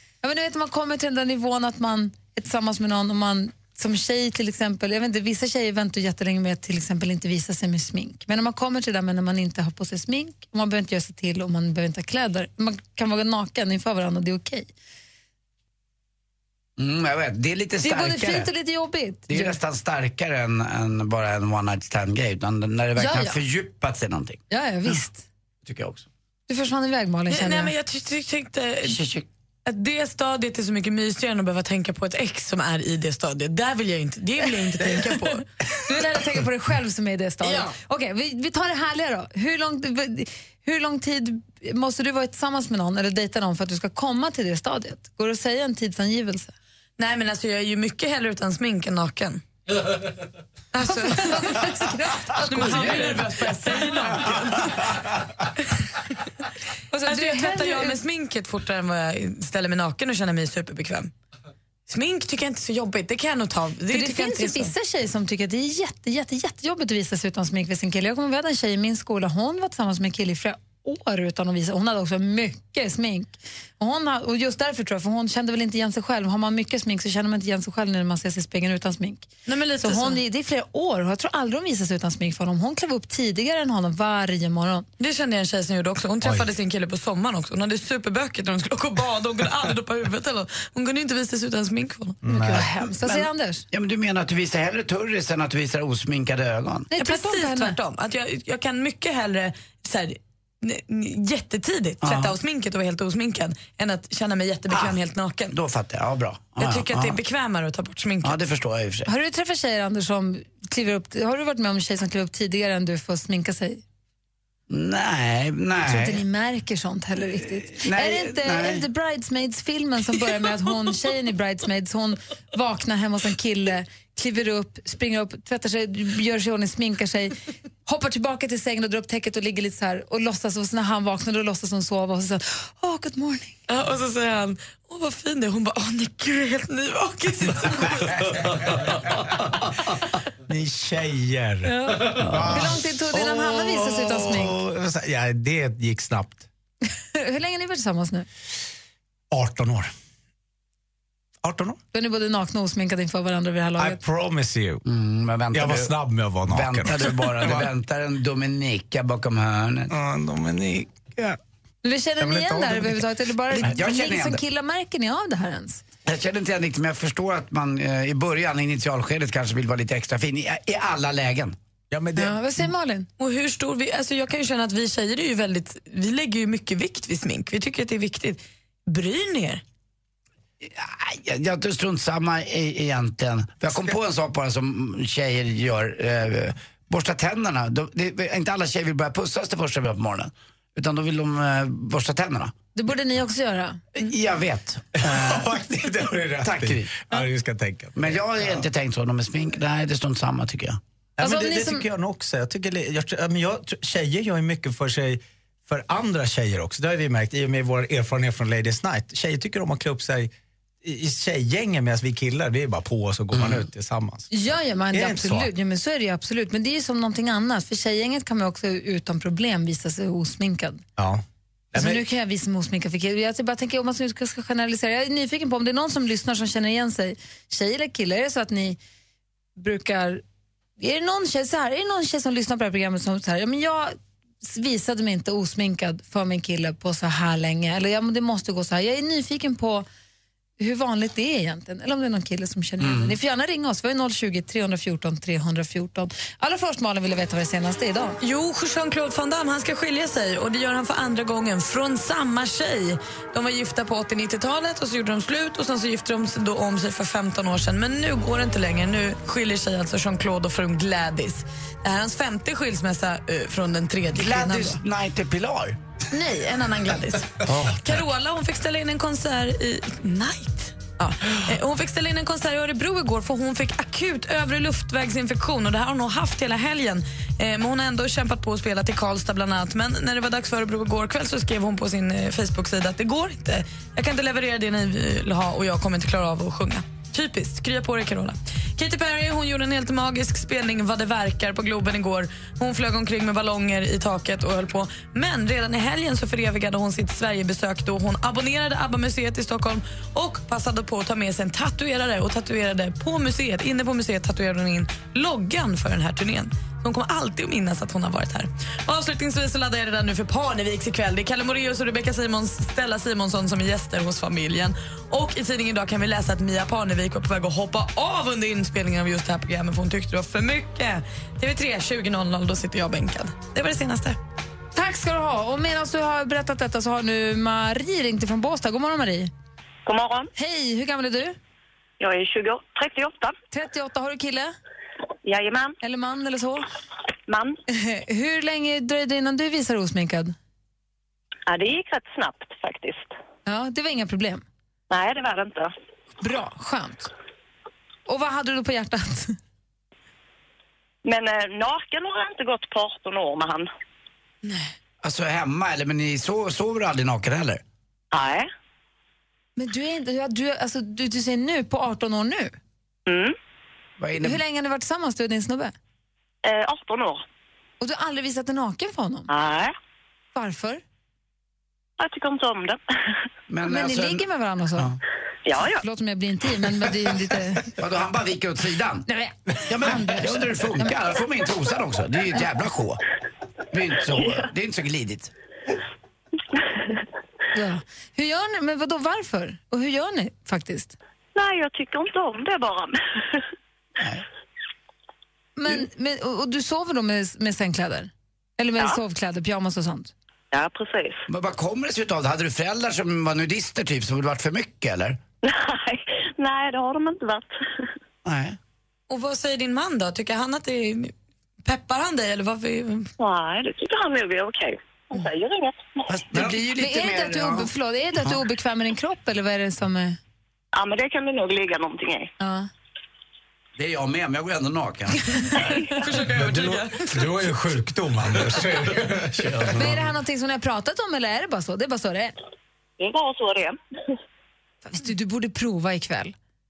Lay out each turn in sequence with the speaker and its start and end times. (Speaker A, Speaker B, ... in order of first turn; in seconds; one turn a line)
Speaker A: 0.2-14.7
Speaker B: 16.8-18.5
Speaker A: 17.8-19.6
Speaker B: 19.3-24.4
Speaker A: 23.0-23.4
Speaker A: 24.5-25.3
Speaker B: 25.6-26.1
Speaker A: 26.5-27.7
Speaker C: 27.3-29.0
Speaker B: 28.8-29.2
Speaker C: 29.6-35.5
Speaker A: 35.8-46.5
Speaker C: 47.0-49.4
Speaker C: 50.7-51.7
Speaker A: 50.9-53.5
Speaker C: 52.3-54.9
Speaker A: 56.9-58.0
Speaker C: 57.0-61.1
Speaker C: 61.9-64.7
Speaker A: 63.9-79.3
Speaker C: 79.5-80.2
Speaker A: 79.8-84.9
Speaker C: 85.0-92.2
Speaker D: 86.2-86.5
Speaker D: 92.2-92.7
Speaker A: 92.3-93.6
Speaker B: 93.0-96.9
Speaker A: 96.9-97.8
Speaker C: 97.0-105.5
Speaker B: 102.0-102.3
Speaker B: 104.7-105.0
Speaker B: 105.5-107.2
Speaker C: 106.6-108.4
Speaker B: 108.2-109.1
Speaker A: 109.1-113.8
Speaker B: 114.7-116.2
Speaker A: 115.9-127.3
Speaker B: 117.7-118.8
Speaker A: 127.8-133.6
Speaker C: 133.7-138.2
Speaker D: 140.5-146.5
Speaker B: 142.2-142.7
Speaker A: 142.5-144.6
Speaker A: 147.1-148.3
Speaker D: 149.3-149.9
Speaker D: 151.4-151.8
Speaker A: 151.9-154.0
Speaker D: 153.8-154.8
Speaker B: 154.8-155.9
Speaker D: 155.5-157.7
Speaker B: 156.5-159.9
Speaker D: 159.9-161.4
Speaker A: 161.8-165.8
Speaker D: 162.2-163.0
Speaker B: 163.6-164.4
Speaker B: 166.1-171.6
Speaker D: 171.9-172.7
Speaker A: 172.2-173.1
Speaker C: 173.2-179.6
Speaker B: 180.6-192.5
Speaker A: 192.7-193.8
Speaker B: 193.9-195.5
Speaker D: 195.0-198.7
Speaker B: 196.4-196.9
Speaker B: 197.9-200.8
Speaker D: 201.2-210.3
Speaker A: 201.2-201.8
Speaker D: 210.8-214.3
Speaker B: 213.3-213.6
Speaker A: 214.3-220.8
Speaker D: 214.9-215.5
Speaker D: 221.0-222.0
Speaker A: 221.7-228.8
Speaker A: 229.6-230.2
Speaker A: 230.8-239.8
Speaker A: 240.6-248.2
Speaker B: 242.8-243.2
Speaker C: 248.2-264.8
Speaker B: 264.1-265.8
Speaker C: 266.1-324.2
Speaker A: 324.7-329.3
Speaker E: 329.9-330.3
Speaker A: 330.4-331.4
Speaker E: 332.0-333.3
Speaker A: 333.5-334.5
Speaker E: 335.2-335.8
Speaker A: 335.8-336.6
Speaker E: 337.3-337.6
Speaker A: 337.7-340.3
Speaker E: 341.5-343.1
Speaker A: 343.4-344.4
Speaker E: 344.9-345.7
Speaker A: 346.2-347.1
Speaker A: 348.1-349.4
Speaker E: 351.0-353.7
Speaker C: 354.4-354.7
Speaker B: 355.0-357.6
Speaker E: 358.1-358.5
Speaker A: 359.6-362.5
Speaker E: 363.1-363.4
Speaker B: 364.0-364.4
Speaker A: 364.2-365.7
Speaker E: 366.4-367.2
Speaker A: 367.8-369.3
Speaker E: 369.3-369.7
Speaker A: 370.3-370.8
Speaker E: 372.0-372.8
Speaker B: 373.5-374.2
Speaker A: 373.7-374.9
Speaker E: 375.4-375.8
Speaker A: 375.8-377.7
Speaker B: 377.8-379.1
Speaker A: 379.1-380.9
Speaker B: 379.6-383.0
Speaker B: 383.7-385.3
Speaker A: 387.5-390.9
Speaker E: 391.3-393.4
Speaker B: 394.0-394.2
Speaker A: 395.6-400.1
Speaker E: 400.5-401.2
Speaker B: 401.3-405.2
Speaker E: 405.4-407.8
Speaker B: 408.2-408.6
Speaker C: 409.1-411.1
Speaker C: 411.6-413.1
Speaker E: 413.2-416.0
Speaker B: 416.1-417.7
Speaker A: 416.8-420.2
Speaker E: 420.7-422.3
Speaker A: 422.4-422.7
Speaker B: 423.8-425.8
Speaker C: 425.9-427.4
Speaker D: 426.3-430.0
Speaker A: 429.7-432.3
Speaker E: 433.0-433.8
Speaker A: 434.8-436.3